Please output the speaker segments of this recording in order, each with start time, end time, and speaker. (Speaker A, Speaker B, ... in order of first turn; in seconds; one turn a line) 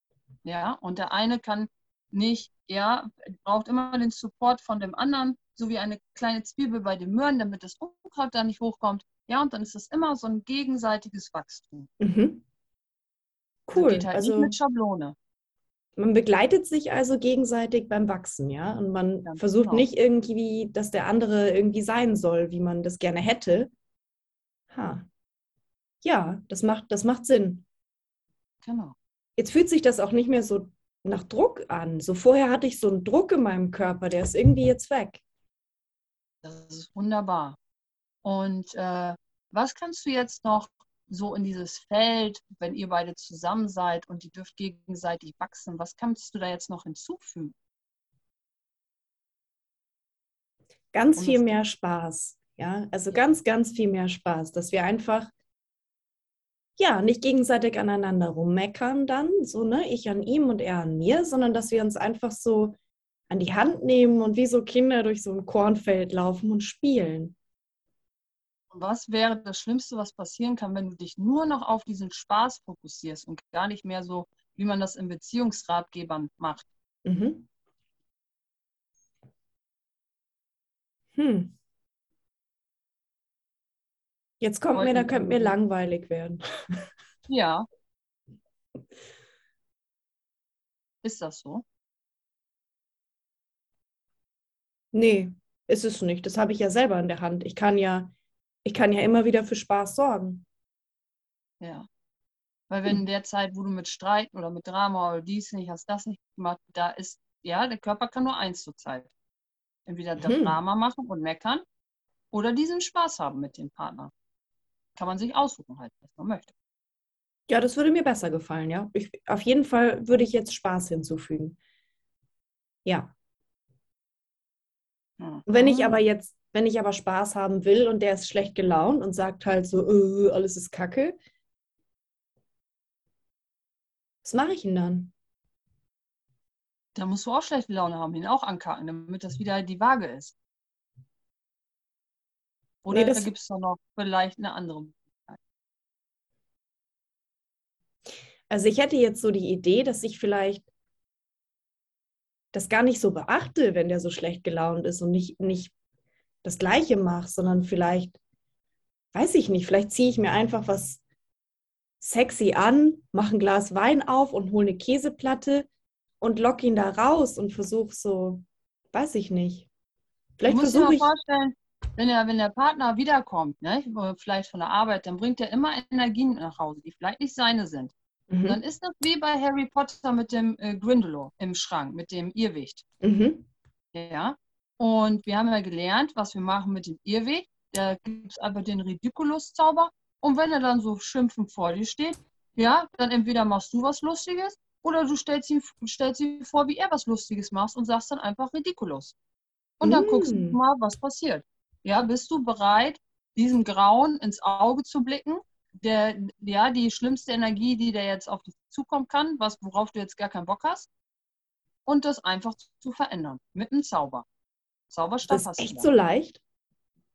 Speaker A: 0.5-11.9
Speaker B: 12.0-12.4
Speaker B: 13.7-14.6
Speaker A: 13.7-15.2
Speaker B: 16.0-23.7
Speaker A: 19.2-19.9
Speaker B: 24.7-25.1
Speaker B: 26.0-27.6
Speaker A: 28.6-28.9
Speaker B: 29.4-35.2
Speaker A: 36.4-37.6
Speaker A: 38.2-47.5
Speaker B: 50.9-55.3
Speaker A: 51.2-51.5
Speaker B: 56.8-62.8
Speaker B: 63.3-67.4
Speaker A: 68.7-76.7
Speaker B: 77.0-77.5
Speaker B: 81.2-81.5
Speaker B: 84.4-86.4
Speaker A: 84.7-85.6
Speaker A: 87.3-87.7
Speaker A: 91.0-91.6
Speaker B: 94.9-98.1
Speaker B: 98.7-100.5
Speaker A: 101.6-101.9
Speaker A: 102.7-109.1
Speaker A: 109.9-111.6
Speaker B: 110.2-110.6
Speaker A: 112.3-114.1
Speaker A: 115.0-116.5
Speaker B: 117.5-121.6
Speaker B: 122.8-123.1
Speaker A: 125.2-126.0
Speaker B: 125.5-131.2
Speaker B: 134.2-135.1
Speaker A: 136.9-140.3
Speaker A: 142.8-145.4
Speaker B: 142.9-143.3
Speaker B: 148.5-150.7
Speaker B: 152.5-155.7
Speaker B: 156.4-158.2
Speaker B: 159.1-161.0
Speaker B: 162.0-165.7
Speaker B: 166.2-169.7
Speaker B: 170.4-171.1
Speaker A: 170.5-177.9
Speaker B: 178.3-178.6
Speaker A: 178.4-182.8
Speaker B: 183.0-183.4
Speaker A: 183.9-199.2
Speaker A: 199.8-210.9
Speaker B: 199.8-200.6
Speaker A: 211.9-214.2
Speaker A: 214.9-215.9
Speaker B: 215.3-216.4